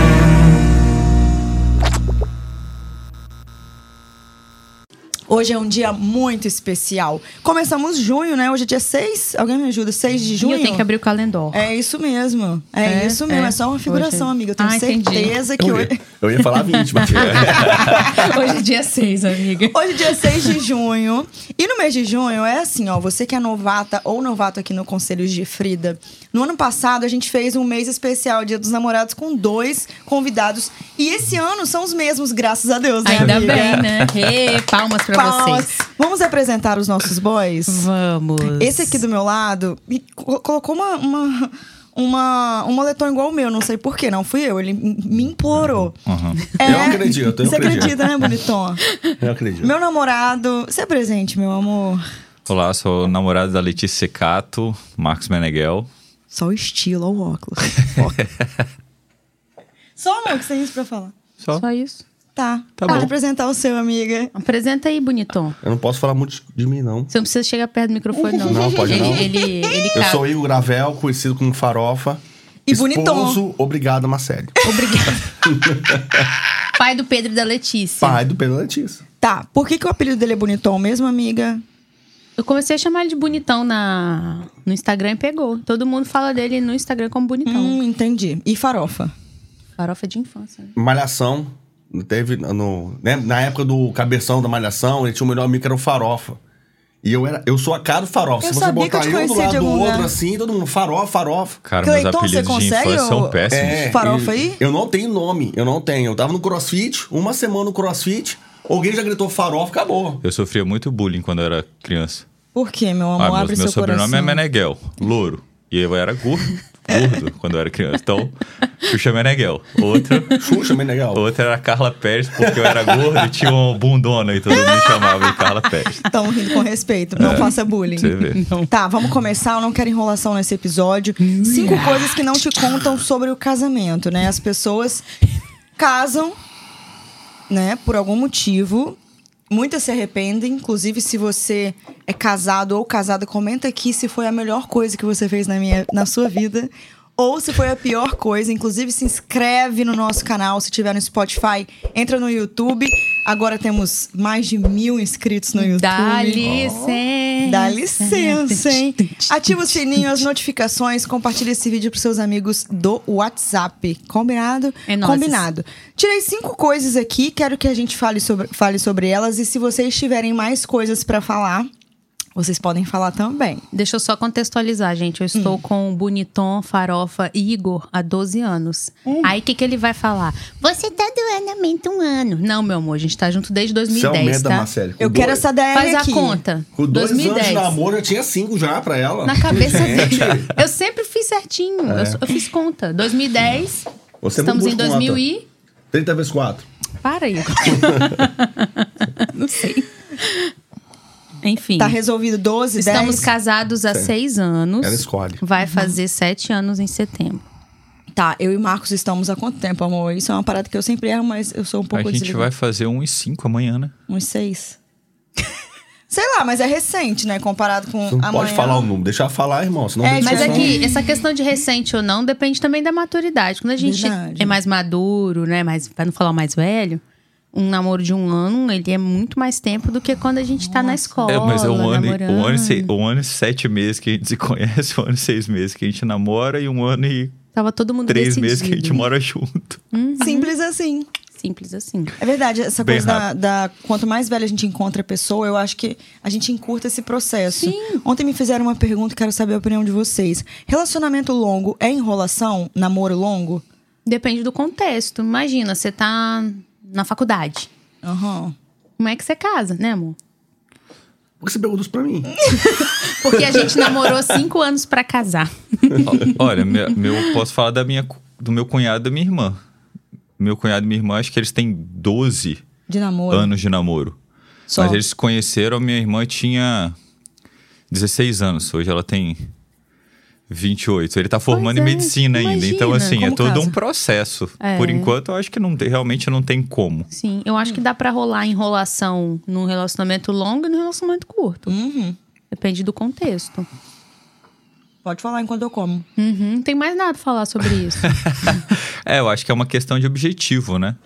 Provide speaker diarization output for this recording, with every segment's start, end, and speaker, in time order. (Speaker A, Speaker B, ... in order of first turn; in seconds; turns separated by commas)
Speaker A: 5.3-10.9, Speaker B: 10.4-11.7, Speaker A: 11.5-16.0, Speaker B: 12.9-15.4, Speaker C: 15.6-18.4, Speaker B: 16.9-20.5, Speaker A: 17.4-18.3, Speaker A: 19.7-34.0, Speaker B: 33.0-35.8, Speaker D: 33.5-33.9, Speaker A: 35.1-37.9, Speaker B: 37.7-38.9, Speaker A: 38.4-46.0, Speaker D: 46.1-46.4, Speaker A: 46.6-48.8, Speaker C: 46.6-48.1, Speaker C: 49.2-49.7, Speaker A: 49.6-52.0, Speaker D: 52.5-55.9, Speaker A: 56.3-58.2, Speaker D: 58.0-58.6, Speaker A: 60.0-61.1, Speaker B: 61.5-62.0, Speaker A: 62.4-64.3, Speaker D: 62.8-63.1, Speaker B: 64.3-65.6, Speaker C: 65.6-67.1, Speaker B: 67.1-70.2, Speaker A: 68.3-69.9, Speaker C: 68.5-69.3, Speaker C: 70.0-74.6, Speaker A: 72.7-73.4, Speaker B: 74.6-75.3, Speaker A: 74.7-75.2, Speaker C: 75.5-76.3, Speaker B: 76.8-78.2, Speaker C: 78.0-79.0, Speaker A: 79.2-81.6, Speaker B: 82.4-87.8, Speaker A: 87.5-89.1, Speaker B: 89.8-90.7, Speaker C: 90.8-96.4, Speaker C: 97.0-101.6, Speaker A: 98.4-100.2, Speaker D: 101.7-103.9, Speaker A: 101.8-104.6, Speaker C: 103.5-110.2, Speaker D: 110.2-112.3, Speaker A: 112.5-114.4, Speaker D: 113.2-120.4, Speaker C: 120.3-121.2, Speaker D: 121.1-126.1, Speaker C: 122.4-123.3, Speaker B: 124.6-125.1, Speaker A: 126.1-135.1, Speaker D: 127.2-128.4, Speaker B: 127.2-127.5, Speaker B: 128.2-128.7, Speaker B: 131.2-132.1, Speaker A: 135.8-136.3, Speaker A: 137.5-139.0, Speaker A: 139.5-156.9, Speaker B: 155.6-160.2, Speaker D: 156.4-156.8, Speaker A: 157.4-171.7, Speaker B: 164.9-165.4, Speaker A: 172.4-173.6, Speaker B: 173.7-184.7, Speaker A: 175.3-175.6, Speaker A: 179.1-179.3, Speaker C: 183.9-185.4, Speaker A: 185.0-186.4, Speaker B: 185.7-187.8, Speaker C: 186.8-190.6, Speaker B: 189.2-195.5, Speaker C: 191.9-192.2, Speaker C: 194.2-195.2, Speaker C: 195.9-196.7, Speaker B: 197.0-200.5, Speaker C: 197.8-198.1, Speaker B: 201.4-202.0, Speaker A: 201.8-203.3, Speaker B: 202.8-207.4, Speaker C: 204.8-205.4, Speaker A: 205.6-205.9, Speaker A: 208.1-212.5, Speaker D: 211.9-213.9, Speaker A: 214.1-214.8, Speaker A: 216.1-218.9, Speaker C: 218.1-220.8, Speaker A: 220.0-221.0, Speaker B: 220.2-227.0, Speaker A: 223.8-224.6, Speaker B: 227.5-232.9, Speaker A: 230.6-231.4, Speaker D: 231.3-237.3, Speaker B: 237.5-239.1, Speaker D: 238.1-239.8, Speaker B: 239.9-240.5, Speaker A: 240.2-241.1, Speaker B: 241.4-242.2, Speaker A: 242.2-253.6, Speaker D: 242.8-243.3, Speaker B: 247.5-248.0, Speaker B: 254.1-257.7, Speaker A: 258.0-258.6, Speaker B: 259.0-260.2, Speaker C: 261.4-262.5, Speaker B: 262.6-266.0, Speaker C: 263.3-264.1, Speaker D: 266.1-269.6, Speaker D: 270.4-272.6, Speaker A: 272.9-273.5, Speaker D: 273.3-274.2, Speaker A: 274.7-275.0, Speaker D: 274.8-276.9, Speaker D: 277.9-279.4, Speaker D: 280.5-287.1, Speaker B: 281.5-283.2, Speaker A: 283.2-283.8, Speaker B: 284.6-285.1, Speaker B: 287.1-291.7, Speaker A: 291.7-292.2, Speaker B: 292.5-293.7, Speaker A: 295.0-296.1, Speaker B: 296.2-298.1, Speaker D: 298.0-301.0